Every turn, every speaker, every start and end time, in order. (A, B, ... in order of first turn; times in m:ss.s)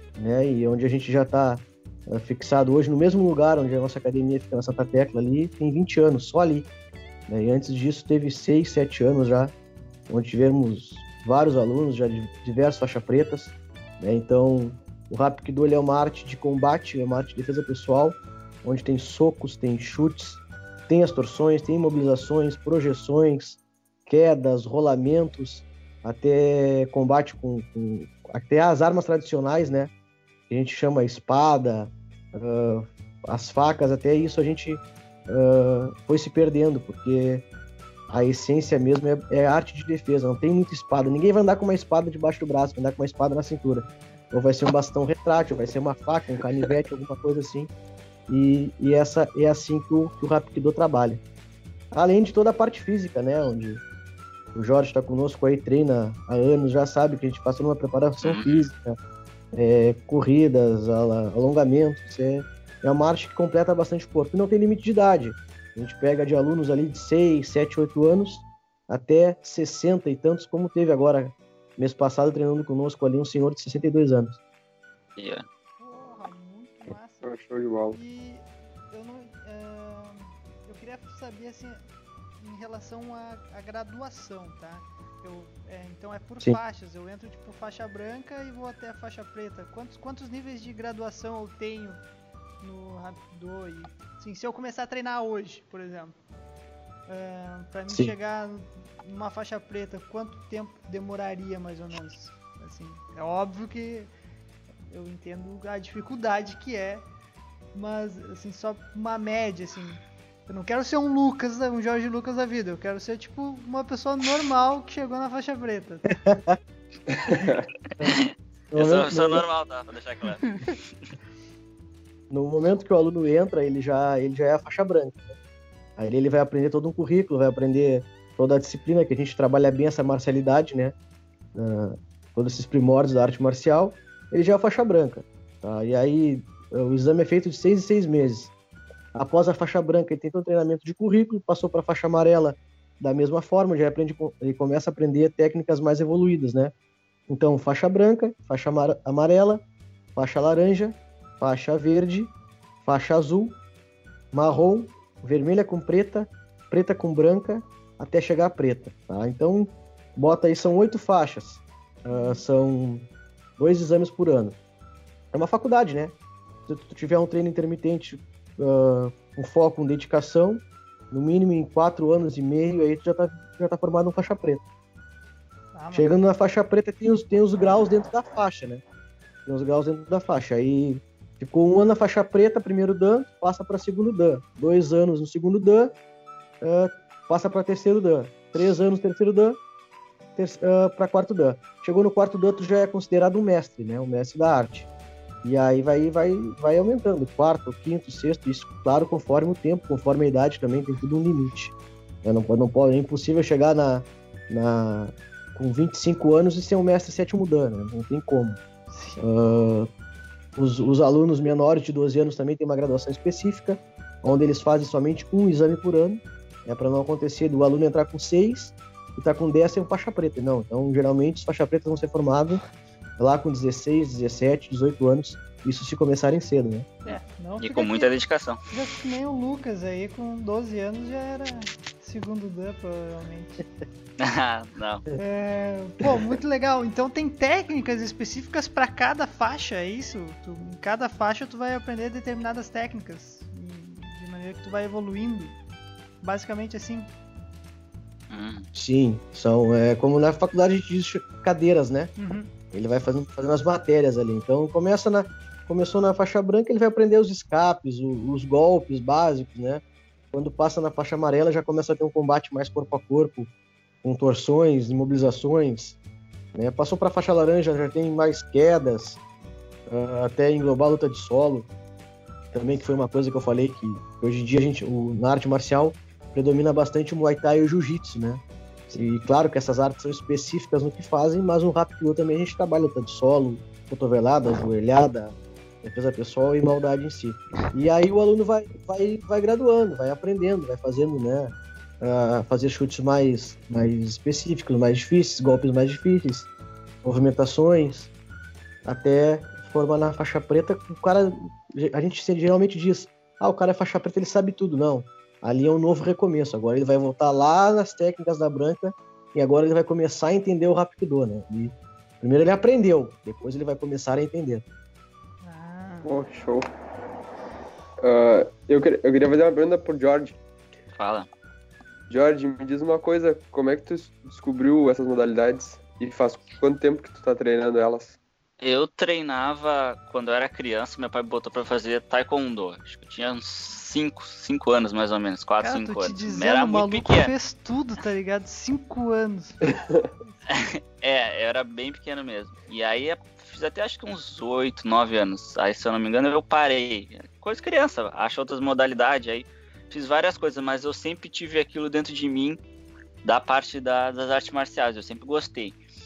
0:00.2-0:06.7 A
0:07.3-0:09.5 A
0:10.1-0:29.9 A
0:30.5-0:37.5 A
0:38.1-0:47.7 A
0:48.3-0:51.2 A
0:51.9-0:53.8 A
0:54.6-0:59.0 A
0:58.2-0:58.6 B
0:59.5-1:14.4 A
1:15.2-1:15.4 B
1:15.8-1:17.3 C
1:17.2-1:18.0 D
1:17.9-1:21.8 C
1:22.4-1:32.0 C
1:32.6-1:36.2 C
1:37.1-1:44.1 C
1:37.9-1:38.2 A
1:44.9-1:47.1 C
1:47.7-1:56.1 C
1:56.1-1:56.6 A
1:57.1-1:57.7 D
1:58.0-2:00.6 B
1:58.7-1:59.4 A
2:02.3-2:05.4 A
2:06.0-2:11.0 A
2:11.6-2:18.5 A
2:19.2-2:26.7 A
2:27.3-2:29.6 A
2:30.2-2:33.6 A
2:34.3-2:43.1 A
2:42.1-2:42.4 C
2:43.6-2:44.6 A
2:45.3-2:46.2 A
2:46.7-2:54.6 A
2:55.7-2:56.2 C
2:55.9-2:58.8 A
2:59.5-3:06.0 A
3:06.6-3:09.6 A
3:10.4-3:14.9 A
3:15.4-3:28.6 A
3:28.9-3:29.2 C
3:29.2-3:29.9 A
3:30.6-3:42.6 A
3:43.2-3:46.9 A
3:47.0-3:48.1 C
3:47.1-3:48.6 B
3:48.7-3:53.6 C
3:54.2-3:55.0 B
3:55.2-4:05.6 C
4:06.2-4:07.1 C
4:08.3-4:08.7 B
4:08.7-4:12.1 A
4:12.2-4:12.5 C
4:12.7-4:23.5 A
4:24.0-4:26.0 A
4:26.6-4:29.2 A
4:29.9-4:31.7 A
4:32.5-4:56.5 A
4:57.0-4:58.1 A
4:58.8-5:14.6 A
5:15.4-5:16.1 C
5:16.0-5:16.7 D
5:18.0-5:20.4 D
5:21.0-5:21.3 B
5:22.1-5:28.2 D
5:28.6-5:37.3 B
5:35.6-5:39.7 C
5:40.5-5:52.6 B
5:53.2-5:55.8 B